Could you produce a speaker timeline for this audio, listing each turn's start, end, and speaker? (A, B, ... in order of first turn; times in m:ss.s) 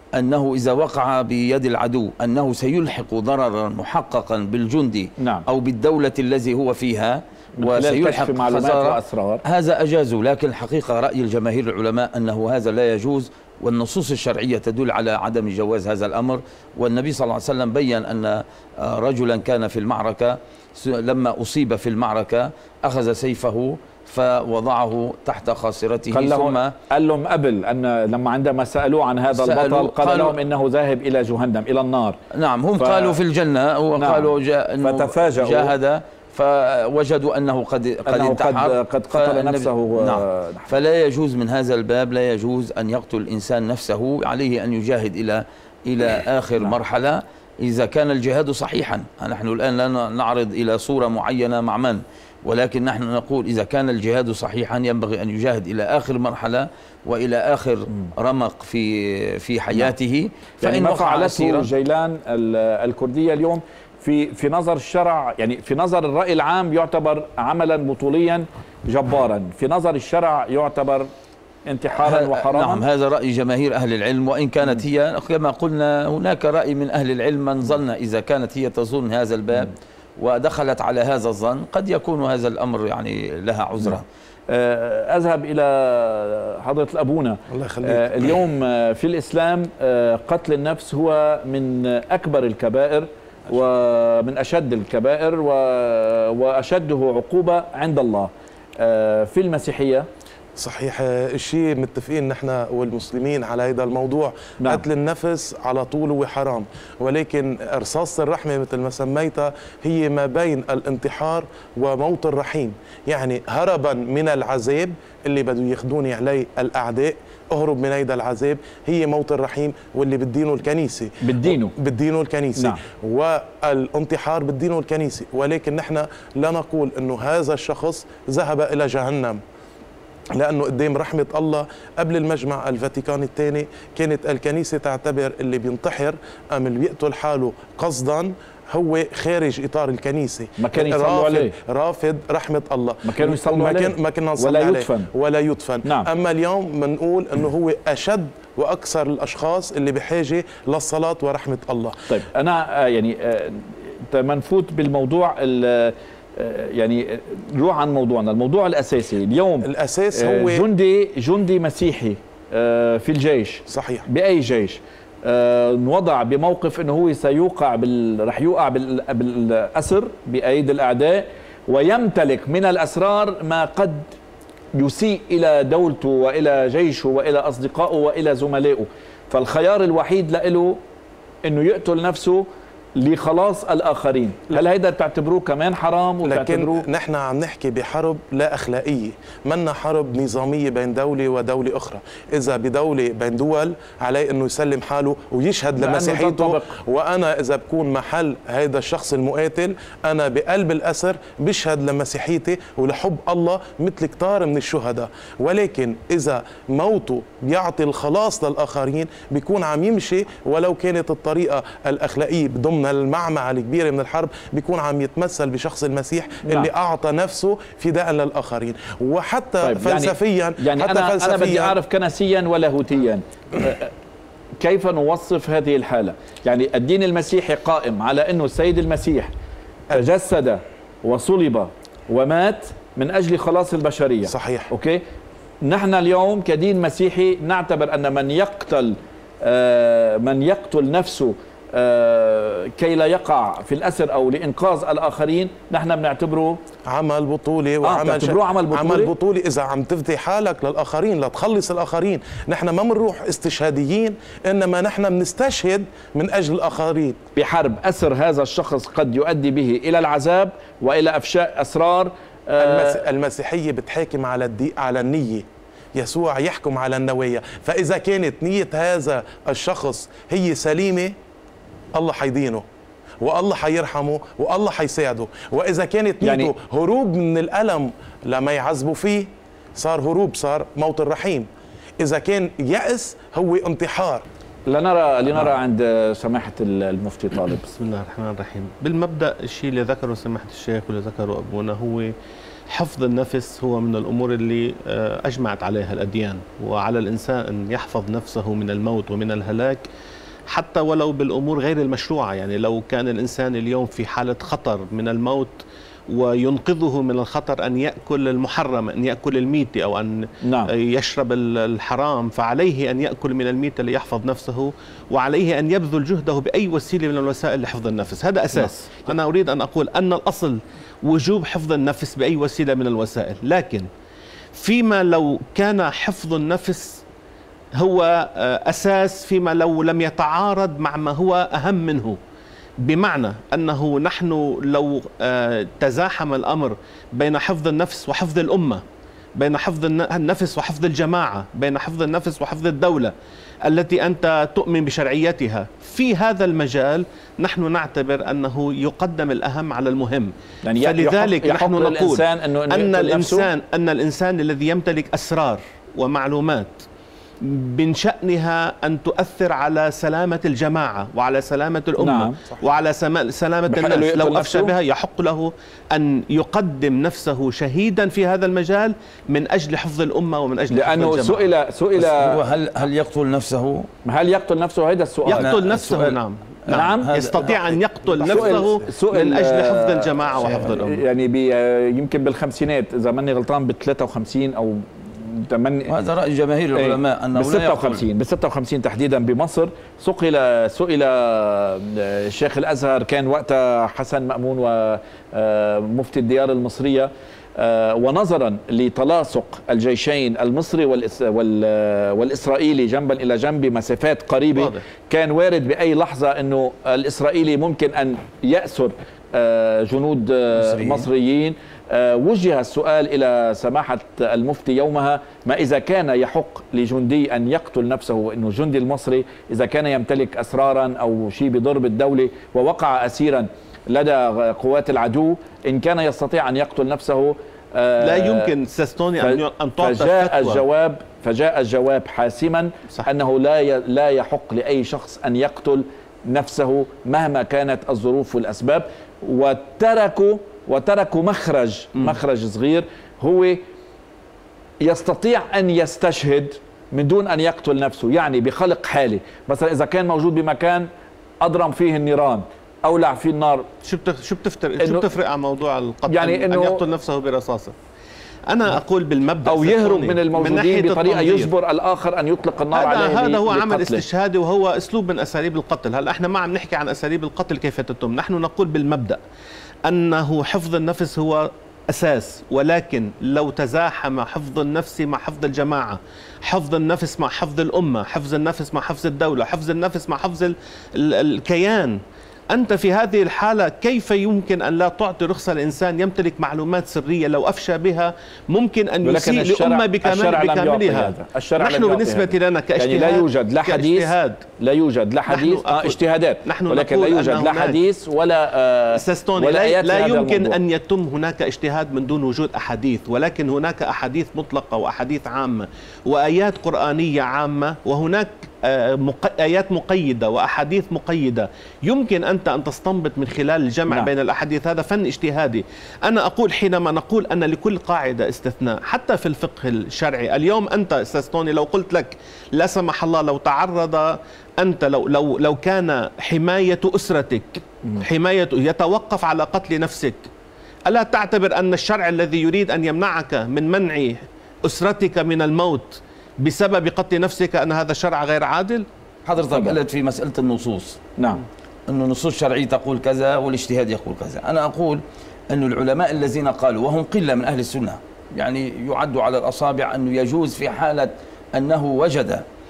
0:00.2-0:26.7 A
0:05.2-0:05.4 B
0:07.6-0:09.4 B
0:26.1-0:32.2 B
0:29.3-0:30.4 A
0:32.3-1:01.7 A
0:32.8-0:33.2 B
0:34.0-0:35.7 B
0:38.1-0:40.7 B
1:00.6-1:11.1 B
1:11.6-1:12.8 B
1:12.0-1:24.0 A
1:24.5-1:40.1 B
1:27.5-1:28.3 C
1:40.6-2:09.4 C
2:01.2-2:01.7 B
2:10.3-2:32.0 C
2:20.6-2:21.5 B
2:23.0-2:25.1 B
2:25.8-2:26.1 B
2:32.1-2:54.1 B
2:39.6-2:40.6 C
2:43.7-2:44.0 C
2:54.8-3:00.8 B
3:01.4-3:02.4 B
3:03.0-3:06.8 B
3:06.2-3:41.8 C
3:15.8-3:16.7 B
3:36.4-3:36.7 B
3:39.6-3:43.9 B
3:44.6-3:49.3 B
3:49.9-3:55.0 B
3:54.2-3:54.7 C
3:55.6-4:06.6 B
4:06.9-4:17.2 C
4:07.8-4:09.1 B
4:17.4-4:23.0 B
4:22.6-4:31.1 C
4:32.0-4:32.6 C
4:33.2-4:41.5 C
4:36.2-4:36.5 B
4:42.0-4:44.2 C
4:44.7-4:47.7 B
4:47.7-4:52.1 D
4:52.7-4:59.8 D
5:00.5-5:23.9 D
5:10.4-5:10.7 B
5:18.5-5:19.1 B
5:24.5-5:27.0 D
5:27.8-5:32.2 D
5:32.8-5:38.8 D
5:39.4-5:43.1 D
5:43.6-5:56.8 D
5:50.6-5:53.5 B
5:57.4-6:11.5 D
6:02.0-6:02.4 B
6:03.7-6:04.7 B
6:10.7-6:12.4 B
6:11.9-6:13.9 A
6:14.0-6:15.6 B
6:15.2-6:21.0 D
6:15.3-6:16.2 A
6:16.7-6:17.5 B
6:16.8-6:17.8 A
6:18.2-6:18.8 C
6:18.2-6:25.9 B
6:25.9-6:28.0 A
6:26.7-7:08.5 B
6:44.5-6:44.8 D
6:50.5-6:51.0 A
7:08.0-7:10.6 D
7:09.2-7:23.6 B
7:24.8-7:30.9 B
7:31.4-7:33.7 B
7:33.8-7:37.7 D
7:34.8-7:35.1 B
7:36.1-7:36.8 B
7:38.5-7:41.5 D
7:39.4-7:44.0 B
7:42.7-7:49.2 D
7:49.8-8:02.0 D
8:02.5-8:14.4 D
8:09.0-8:20.6 B
8:15.3-8:17.8 D
8:18.9-8:50.3 D
8:50.9-8:58.8 D
8:59.2-9:01.0 A
8:59.5-8:59.8 B
9:01.2-9:01.4 B
9:01.9-9:12.4 A